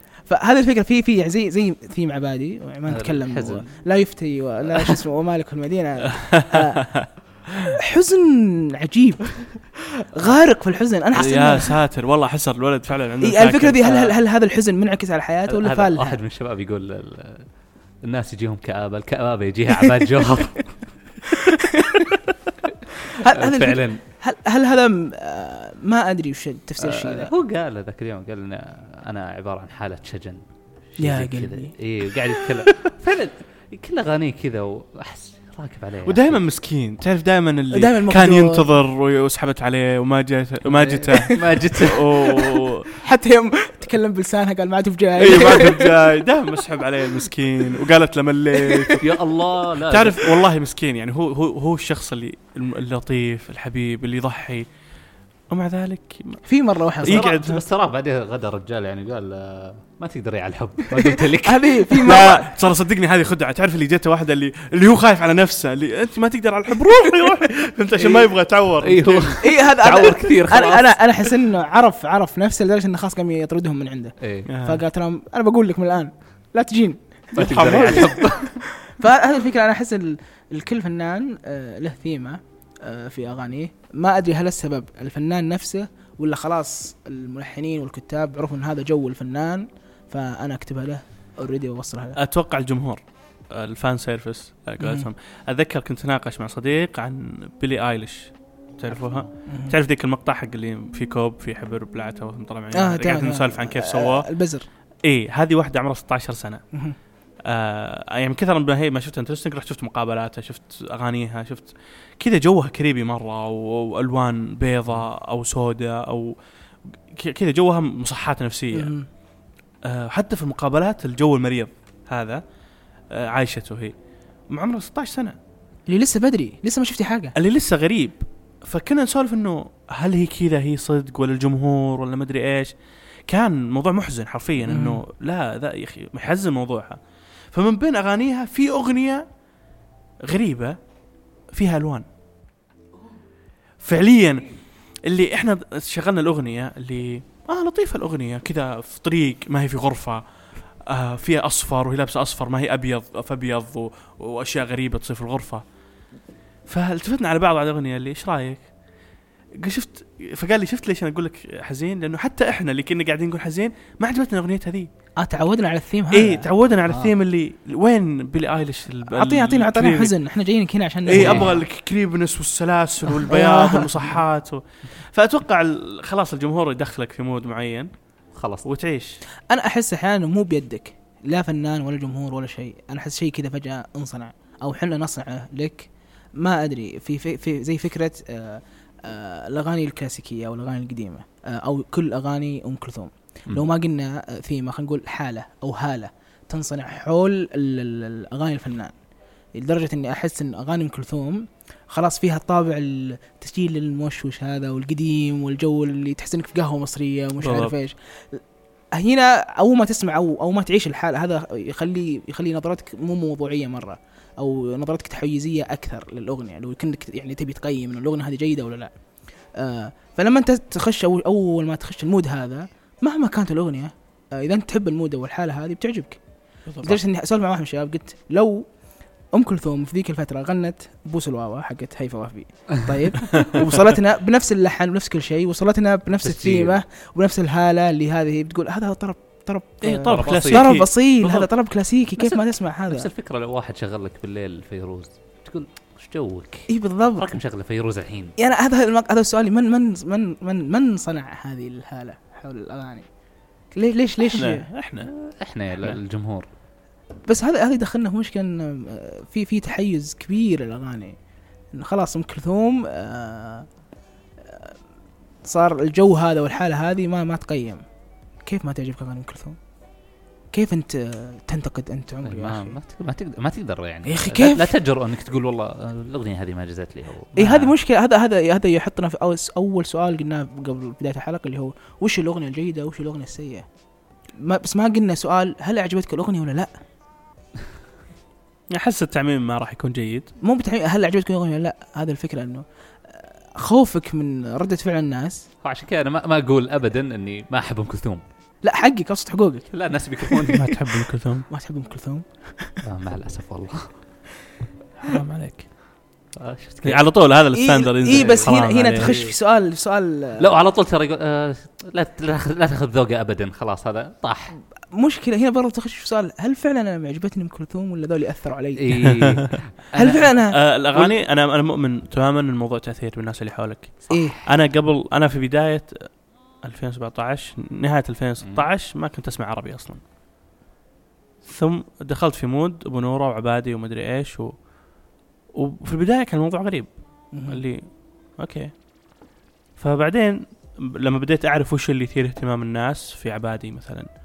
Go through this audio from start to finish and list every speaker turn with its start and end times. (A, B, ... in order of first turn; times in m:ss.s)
0:00.3-0:06.9 A
0:02.9-0:03.8 B
0:04.7-0:05.0 B
0:06.2-0:07.7 C
0:07.8-0:11.8 A
0:11.1-0:14.0 C
0:13.2-0:16.2 A
0:15.5-0:17.5 B
0:18.0-0:20.8 B
0:21.3-0:22.1 A
0:23.1-0:27.3 A
0:23.3-0:24.0 B
0:26.8-0:36.4 B
0:31.0-0:31.7 A
0:36.1-0:42.9 C
0:37.7-0:38.7 A
0:40.6-0:42.5 B
0:43.0-0:46.2 A
0:45.2-0:49.1 C
0:48.6-0:49.0 A
0:49.0-0:50.4 B
0:49.9-0:54.7 C
0:55.5-0:56.4 C
0:56.4-0:57.3 A
0:57.0-0:57.6 C
0:57.0-1:02.1 B
1:01.1-1:02.5 A
1:02.0-1:09.4 C
1:08.0-1:08.3 A
1:08.8-1:11.0 B
1:09.4-1:18.3 A
1:14.2-1:14.5 B
1:14.5-1:14.8 C
1:17.4-1:18.6 B
1:17.4-1:18.2 C
1:18.8-1:32.2 A
1:32.2-1:44.3 C
1:34.8-1:35.1 A
1:39.5-1:39.8 A
1:42.7-1:44.6 A
1:45.0-1:46.6 C
1:47.5-1:56.4 C
1:57.1-1:58.9 C
1:58.7-1:59.1 A
1:59.8-2:02.4 C
2:03.1-2:03.9 C
2:04.5-2:05.4 C
2:05.9-2:07.4 A
2:07.4-2:12.7 C
2:13.3-2:17.0 C
2:14.6-2:15.0 A
2:17.5-2:19.3 C
2:20.2-2:20.8 C
2:21.5-2:22.1 C
2:23.8-2:24.5 C
2:25.0-2:30.2 C
2:30.9-2:35.6 C
2:36.7-2:38.7 C
2:39.6-2:44.9 C
2:45.2-2:46.5 A
2:46.1-2:50.1 C
2:49.1-2:51.6 A
2:51.1-2:57.9 C
2:51.1-2:51.6 B
2:53.1-2:54.2 A
2:58.4-2:58.6 B
2:58.6-2:59.2 C
2:59.5-3:18.9 A
3:19.6-3:28.4 A
3:27.4-3:27.7 C
3:28.9-3:38.9 A
3:39.6-3:46.2 A
3:46.7-3:47.0 C
3:46.8-3:48.7 A
3:49.3-4:03.1 A
3:56.2-3:56.8 B
3:59.8-4:01.5 C
4:00.1-4:00.8 B
4:02.2-4:08.3 B
4:06.7-4:07.3 A
4:08.4-4:13.1 A
4:13.7-4:14.7 A
4:14.4-4:15.1 C
4:15.0-4:16.5 B
4:17.2-4:21.2 A
4:21.7-4:23.7 A
4:24.5-4:24.8 A
4:25.4-4:27.8 A
4:28.4-4:29.6 A
4:30.5-4:32.8 A
4:32.2-4:37.8 B
4:34.1-4:34.7 A
4:37.4-4:43.6 A
4:44.4-4:46.8 A
4:48.7-4:50.3 C
4:50.4-4:55.5 A
4:55.6-4:58.2 B
4:58.6-4:59.7 A
4:59.7-5:00.8 B
5:00.5-5:01.5 C
5:01.5-5:02.8 A
5:02.8-5:03.9 B
5:05.0-5:05.7 C
5:06.4-5:07.0 B
5:06.8-5:09.2 C
5:07.5-5:10.5 A
5:08.1-5:09.4 B
5:10.4-5:14.5 B
5:14.9-5:19.2 A
5:18.8-5:20.3 B
5:19.1-5:19.4 C
5:19.9-5:21.2 A
5:20.5-5:26.1 C
5:24.1-5:24.4 A
5:26.6-5:30.0 C
5:28.4-5:28.7 B
5:31.4-5:34.6 C
5:35.5-5:36.9 C
5:37.3-5:37.6 A
5:37.5-5:37.8 C
5:38.4-5:38.7 C
5:39.8-5:44.1 C